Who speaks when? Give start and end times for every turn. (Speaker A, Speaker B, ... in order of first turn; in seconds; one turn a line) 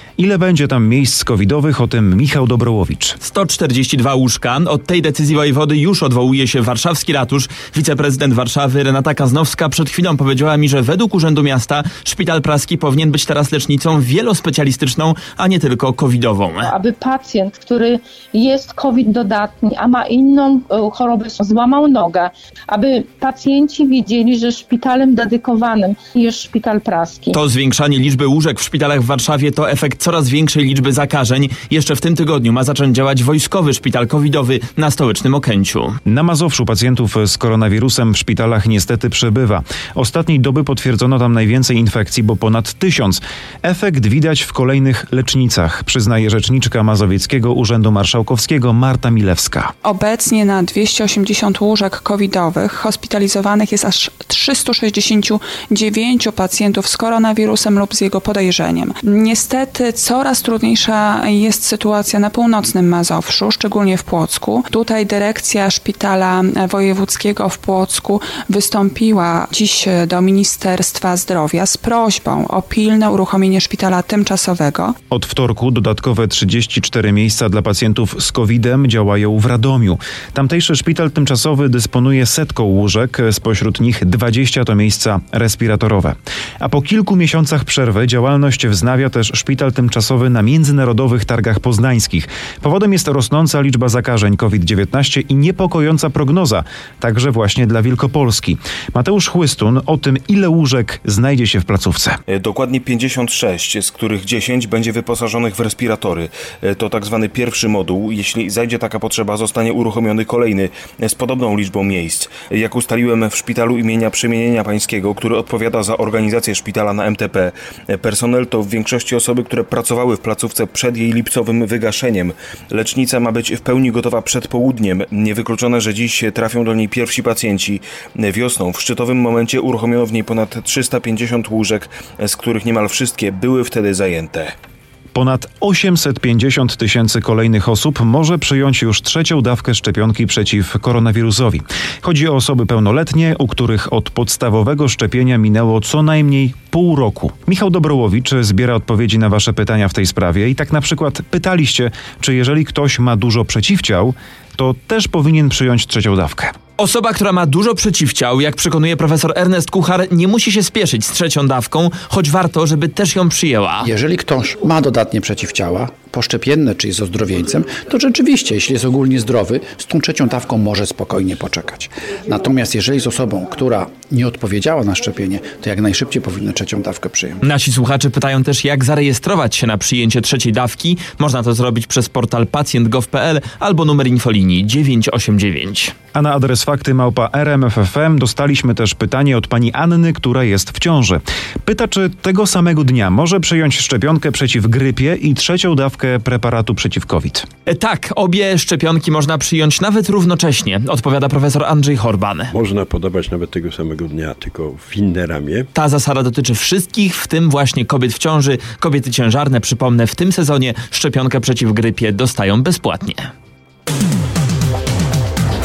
Speaker A: 0.2-3.2
Speaker B: 3.2-16.7
Speaker C: 16.7-27.4
Speaker B: 27.3-35.9
Speaker A: 36.0-49.7
Speaker D: 49.8-74.9
Speaker A: 75.1-102.2
Speaker E: 102.3-134.5
Speaker A: 135.1-156.5
Speaker B: 156.8-163.9
Speaker F: 163.8-177.4
Speaker B: 177.4-185.9
Speaker A: 186.1-197.5
Speaker B: 197.7-202.5
Speaker G: 202.5-205.7
Speaker B: 205.7-213.3